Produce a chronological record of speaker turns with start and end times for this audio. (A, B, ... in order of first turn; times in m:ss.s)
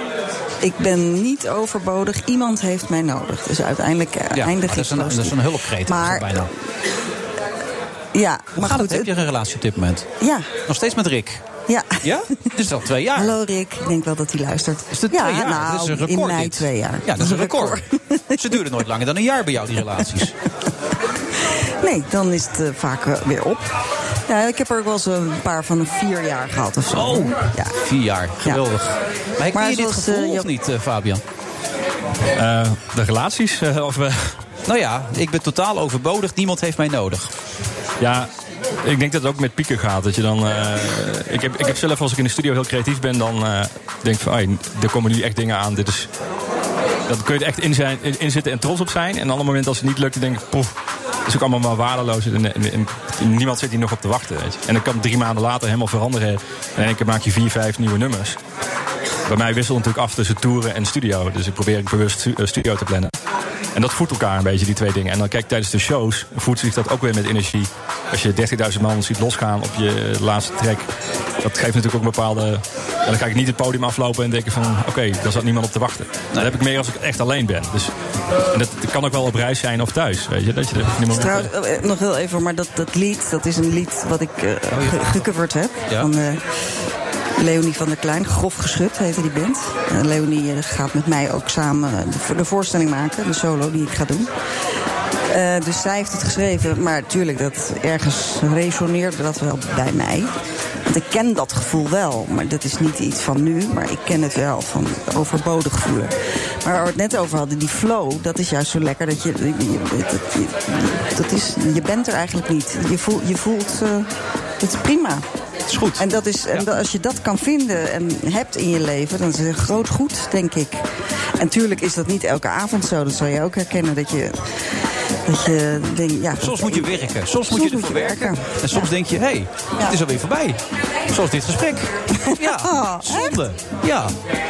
0:00.6-0:06.4 A
0:04.3-0:06.5 B
0:08.1-0:09.1 A
0:08.5-0:10.1 B
0:10.2-0:10.5 A
0:10.7-0:11.4 B
0:11.7-0:12.5 A
0:12.0-0:13.4 B
0:13.1-0:18.4 A
0:14.9-0:17.8 B
0:18.4-0:20.3 B
0:21.8-0:23.7 A
0:24.3-0:27.7 A
0:27.8-0:31.2 B
0:29.5-0:30.5 A
0:32.3-0:34.4 C
0:34.6-0:37.3 B
0:38.0-0:38.3 C
0:38.8-0:46.1 C
0:47.1-0:50.7 C
0:51.2-0:58.4 C
0:59.3-1:03.1 C
1:03.7-1:10.9 C
1:11.4-1:17.9 C
1:18.5-1:21.5 C
1:21.1-1:26.4 A
1:24.7-1:25.2 B
1:27.4-1:34.3 A
1:35.3-1:40.3 A
1:40.9-1:54.1 A
1:54.6-1:55.2 A
1:55.7-1:56.6 B
1:56.0-2:00.8 A
2:01.4-2:04.5 A
2:05.3-2:08.9 A
2:06.4-2:14.1 B
2:12.2-2:13.4 A